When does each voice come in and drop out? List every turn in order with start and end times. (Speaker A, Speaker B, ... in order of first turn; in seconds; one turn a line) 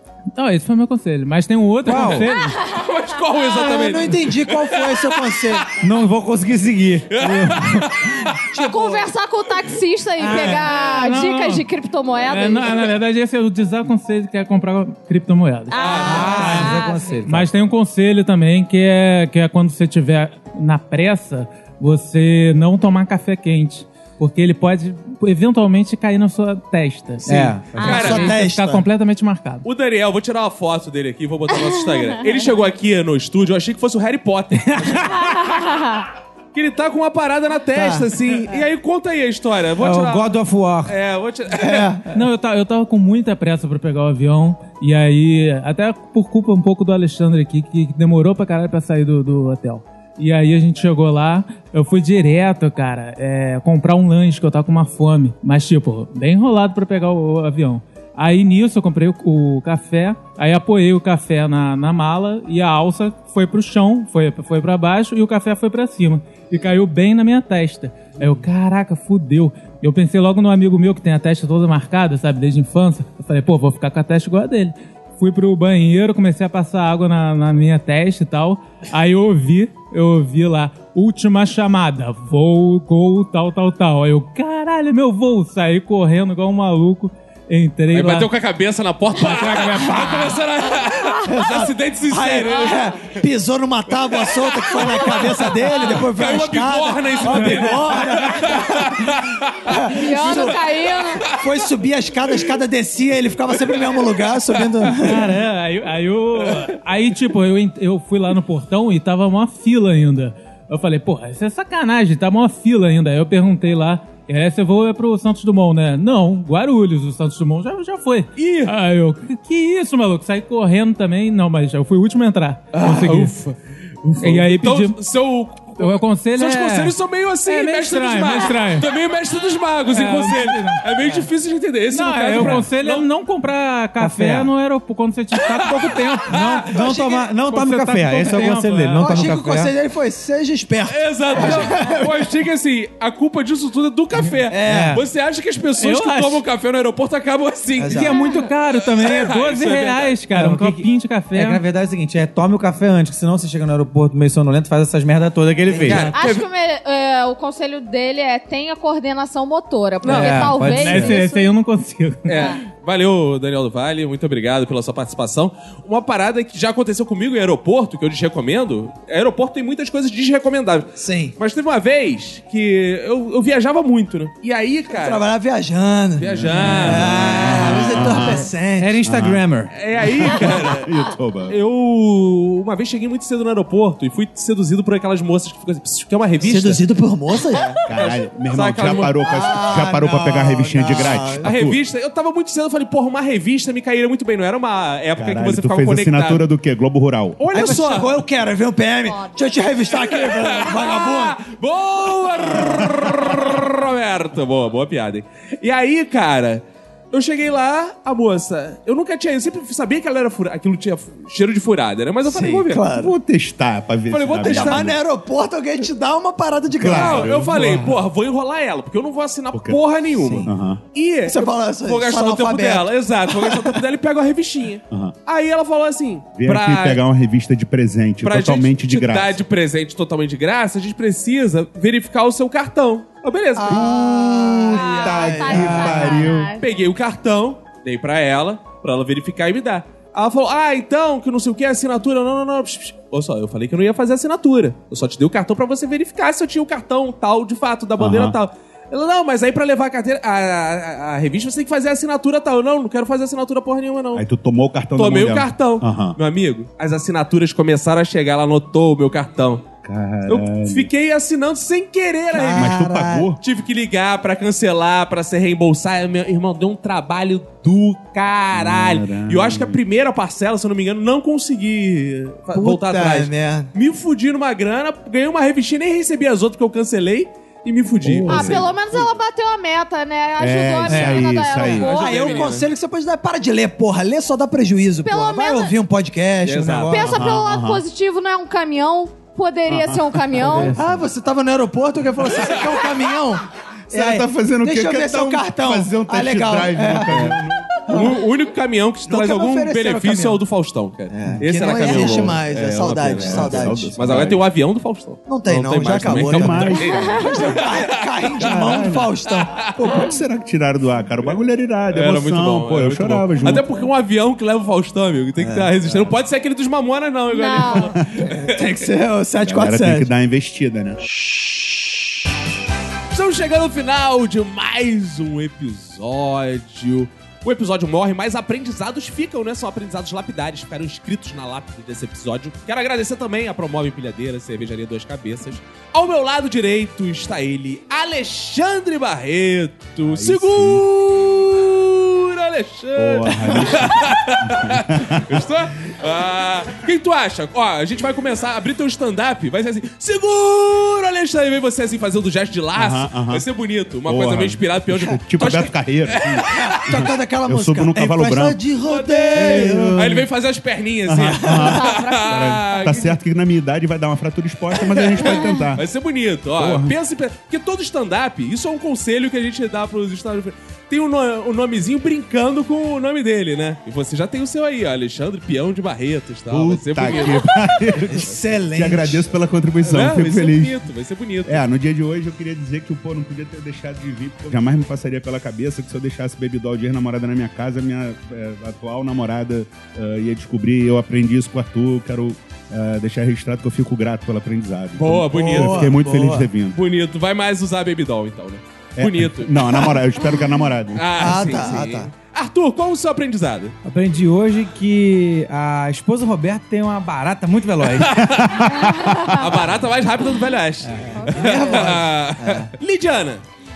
Speaker A: 0.3-2.6
Speaker B: 1.8-2.3
Speaker C: 2.0-2.8
Speaker D: 2.6-5.6
Speaker E: 3.5-5.7
Speaker B: 5.8-8.0
Speaker D: 7.1-8.4
Speaker E: 8.5-9.1
Speaker C: 8.5-12.9
Speaker A: 10.2-11.6
Speaker D: 10.2-10.6
Speaker A: 12.2-16.1
Speaker C: 15.7-17.3
Speaker D: 15.7-16.7
Speaker B: 16.0-17.5
Speaker A: 17.2-29.6
Speaker B: 27.2-27.6
Speaker E: 27.7-28.8
Speaker C: 27.8-28.3
Speaker D: 27.8-28.4
Speaker D: 29.6-35.6
Speaker C: 31.7-32.0
Speaker C: 35.2-36.0
Speaker D: 36.5-40.3
Speaker E: 37.7-38.1
Speaker B: 39.8-40.9
Speaker D: 40.9-42.0
Speaker E: 41.5-42.0
Speaker A: 42.1-88.3
Speaker D: 87.9-92.8
Speaker A: 89.1-90.4
Speaker E: 91.3-100.6
Speaker D: 94.2-99.7
Speaker C: 99.9-101.3
Speaker D: 101.2-101.5
Speaker E: 101.3-105.3
Speaker D: 103.7-104.0
Speaker A: 105.0-123.3
Speaker D: 118.4-118.7
Speaker D: 122.7-133.0
Speaker A: 124.2-125.0
Speaker A: 125.8-128.9
Speaker A: 129.9-131.3
Speaker A: 131.9-136.4
Speaker B: 132.4-132.7
Speaker B: 134.0-134.5
Speaker D: 135.4-136.7
Speaker B: 136.2-139.7
Speaker E: 136.7-137.3
Speaker A: 137.4-139.2
Speaker E: 139.0-142.2
Speaker D: 140.8-150.2
Speaker E: 144.5-145.0
Speaker B: 144.6-145.0
Speaker A: 145.8-146.4
Speaker E: 147.8-148.2
Speaker A: 147.9-151.6
Speaker C: 148.1-148.5
Speaker B: 150.3-156.1
Speaker E: 155.7-156.1
Speaker D: 155.9-156.4
Speaker C: 156.1-161.5
Speaker D: 160.0-160.4
Speaker B: 160.1-161.2
Speaker A: 160.7-162.5
Speaker D: 162.3-175.2
Speaker C: 162.3-162.6
Speaker E: 171.0-171.3
Speaker E: 174.9-179.0
Speaker D: 176.2-178.0
Speaker F: 176.2-178.5
Speaker B: 177.6-179.7
Speaker F: 179.0-179.4
Speaker D: 179.7-180.9
Speaker F: 180.0-181.6
Speaker D: 181.5-186.8
Speaker E: 186.4-187.8
Speaker D: 187.8-189.7
Speaker F: 187.9-191.8
Speaker E: 188.8-191.4
Speaker D: 191.4-196.4
Speaker F: 195.2-197.4
Speaker D: 197.4-198.2
Speaker E: 197.5-201.4
Speaker C: 199.0-199.6
Speaker D: 199.9-212.8
Speaker E: 212.2-213.1
Speaker F: 212.9-215.0
Speaker D: 214.1-214.9
Speaker E: 214.4-217.7
Speaker F: 216.7-218.0
Speaker D: 216.9-227.0
Speaker F: 219.5-219.8
Speaker E: 220.2-220.5
Speaker F: 220.4-220.8
Speaker E: 221.3-223.8
Speaker F: 224.9-225.1
Speaker F: 226.3-229.4
Speaker D: 228.2-233.9
Speaker E: 233.6-236.2
Speaker F: 233.7-236.5
Speaker C: 234.7-236.6
Speaker B: 235.5-235.9
Speaker D: 236.6-254.2
Speaker F: 248.0-248.4
Speaker F: 254.1-256.2
Speaker D: 254.9-259.6
Speaker F: 259.8-260.9
Speaker D: 260.3-262.8
Speaker E: 262.3-263.3
Speaker F: 262.4-263.4
Speaker D: 263.4-279.1
Speaker F: 268.5-269.8
Speaker E: 272.5-273.7
Speaker F: 278.0-278.6
Speaker C: 278.3-282.4
Speaker F: 280.4-281.9
Speaker B: 280.9-281.2
Speaker D: 281.6-282.7
Speaker E: 281.8-287.2
Speaker C: 285.0-285.7
Speaker D: 286.4-287.2
Speaker C: 286.9-290.8
Speaker F: 287.1-287.8
Speaker F: 289.7-290.9
Speaker E: 290.7-297.4
Speaker F: 293.9-297.8
Speaker D: 297.1-309.9
Speaker E: 297.9-298.2
Speaker E: 299.1-300.4
Speaker E: 301.1-304.0
Speaker F: 301.2-304.4
Speaker E: 305.3-310.0
Speaker F: 306.0-307.3
Speaker F: 308.4-309.1
Speaker F: 309.7-313.6
Speaker D: 311.9-318.7
Speaker E: 315.4-316.0
Speaker C: 317.3-318.0
Speaker E: 318.3-320.1
Speaker F: 319.4-321.0
Speaker D: 323.1-356.8
Speaker F: 340.0-340.8
Speaker F: 342.9-345.5
Speaker F: 352.7-353.4
Speaker F: 354.0-358.6
Speaker E: 356.5-360.1
Speaker D: 358.8-363.1
Speaker F: 359.3-360.3
Speaker F: 361.0-365.8
Speaker E: 361.2-361.8
Speaker C: 361.7-363.0
Speaker D: 364.9-377.8
Speaker F: 366.5-366.9
Speaker F: 376.5-380.8
Speaker E: 378.0-379.3
Speaker D: 379.8-381.6
Speaker F: 381.4-396.8
Speaker D: 395.0-395.9
Speaker E: 395.3-396.5
Speaker D: 396.7-399.9
Speaker F: 399.0-401.5
Speaker D: 400.9-403.7
Speaker E: 401.1-402.1
Speaker B: 403.8-408.1
Speaker D: 407.8-413.4
Speaker F: 408.4-409.1
Speaker C: 408.6-409.7
Speaker B: 410.9-411.1
Speaker C: 411.1-411.9
Speaker E: 411.3-412.7